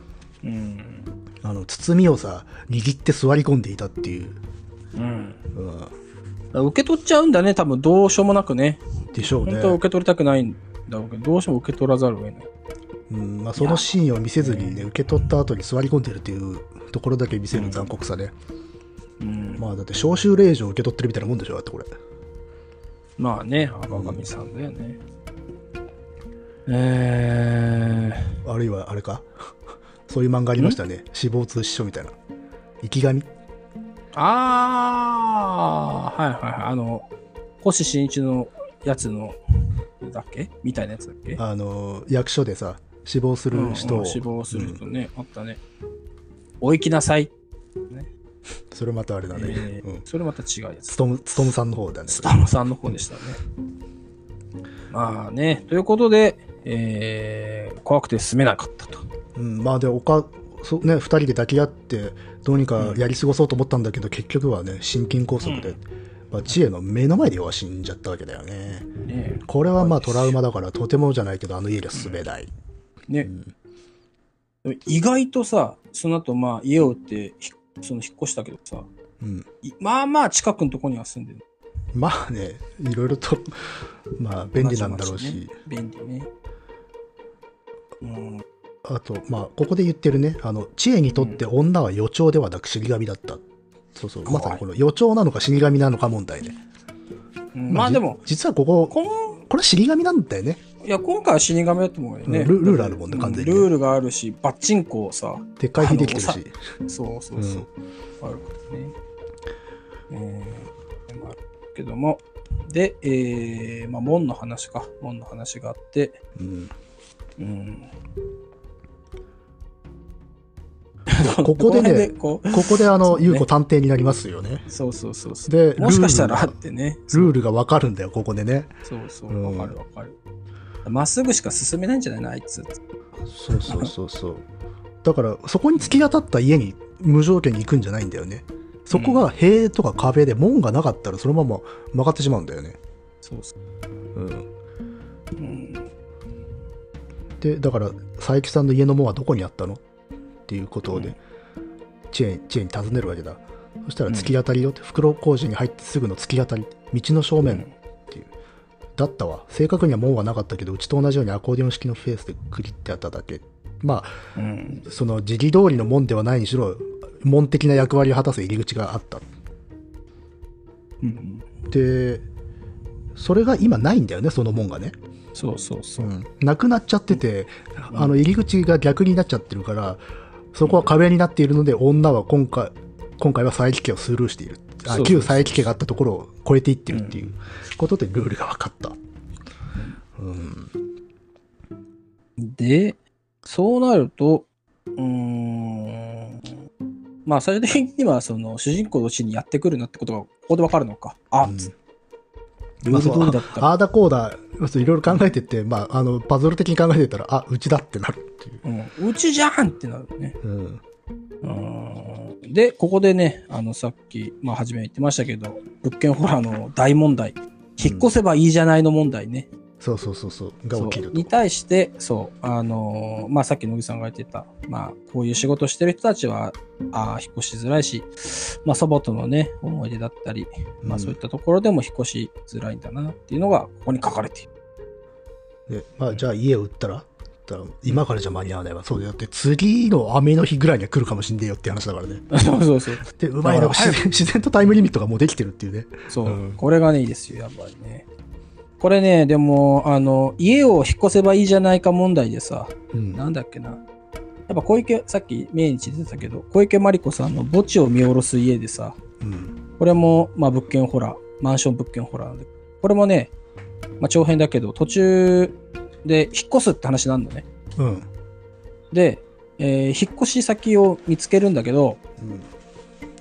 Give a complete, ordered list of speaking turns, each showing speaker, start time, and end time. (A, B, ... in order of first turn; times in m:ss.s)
0:00.4-0:01.1 A
0:01.4-0:04.4 B
0:04.9-0:05.4 A
0:05.5-0:05.9 B
0:06.5-0:12.5 A
0:09.1-0:09.8 B
0:13.1-0:18.3 B
0:13.6-0:13.9 A
0:14.4-0:14.9 A
0:17.5-0:17.9 A
0:19.2-0:19.6 A
0:19.6-0:21.9 B
0:23.2-0:25.0 A
0:23.9-0:24.2 B
0:26.7-0:28.3 A
0:28.4-0:29.3 B
0:30.1-0:32.1 B
0:32.8-0:33.3 B
0:34.1-0:37.1 A
0:37.6-0:41.4 A
0:41.4-0:44.8 B
0:43.5-0:45.6 A
0:46.6-0:47.3 A
0:48.7-0:50.0 B
0:49.3-0:51.0 A
0:50.9-0:52.4 B
0:52.1-0:53.4 A
0:54.9-0:59.0 A
0:59.4-1:08.9 B
1:05.4-1:05.8 A
1:09.0-1:10.4 A
1:09.4-1:12.5 B
1:11.9-1:12.2 A
1:13.2-1:13.5 B
1:14.6-1:18.9 A
1:19.2-1:19.4 B
1:19.6-1:21.4 A
1:21.9-1:23.6 B
1:24.1-1:25.5 B
1:24.6-1:26.3 A
1:28.0-1:28.4 A
1:28.8-1:33.4 B
1:33.9-1:36.6 B
1:34.2-1:34.6 A
1:37.5-1:38.2 A
1:37.7-1:40.6 B
1:38.9-1:39.4 A
1:40.8-1:47.7 A
1:42.2-1:43.7 B
1:45.6-1:46.5 B
1:47.4-1:47.6 B
1:48.2-1:48.9 A
1:50.1-1:56.2 A
1:56.4-1:56.7 B
1:57.4-1:57.9 A
2:01.1-2:03.4 A
2:01.2-2:04.6 B
2:04.7-2:07.3 A
2:05.5-2:06.5 B
2:07.1-2:08.7 B
2:08.8-2:10.2 A
2:09.3-2:09.8 B
2:10.8-2:12.8 A
2:13.2-2:14.4 B
2:13.6-2:13.9 A
2:15.0-2:22.8 B
2:18.9-2:19.2 A
2:23.2-2:23.5 A
2:24.1-2:24.5 B
2:25.4-2:25.8 A
2:27.4-2:29.8 B
2:30.5-2:31.2 B
2:30.9-2:31.2 A
2:32.1-2:38.3 B
2:37.4-2:37.7 A
2:39.0-2:44.1 B
2:44.4-2:44.8 A
2:44.8-2:49.3 B
2:51.0-2:51.5 A
2:51.7-2:52.2 B
2:53.1-2:54.9 B
2:55.3-2:56.1 A
2:56.0-3:00.0 B
3:00.5-3:09.0 B
3:04.9-3:05.6 A
3:06.9-3:07.2 A
3:10.2-3:10.7 B
3:12.4-3:16.6 A
3:17.2-3:21.7 A
3:21.4-3:21.7 B
3:22.8-3:28.6 B
3:22.8-3:23.7 A
3:28.6-3:30.4 A
3:30.4-3:30.8 B
3:31.4-3:39.5 A
3:37.8-3:38.1 B
3:39.8-3:41.3 B
3:40.7-3:54.5 A
3:50.8-3:51.2 B
3:55.7-4:02.2 B
4:02.3-4:04.0 A
4:03.0-4:06.6 B
4:06.1-4:08.1 A
4:08.8-4:13.8 A
4:12.9-4:13.2 B
4:14.5-4:19.0 A
4:19.2-4:19.6 B
4:19.8-4:23.3 A
4:24.0-4:27.4 A
4:27.8-4:28.0 B
4:28.9-4:32.0 A
4:32.2-4:32.5 B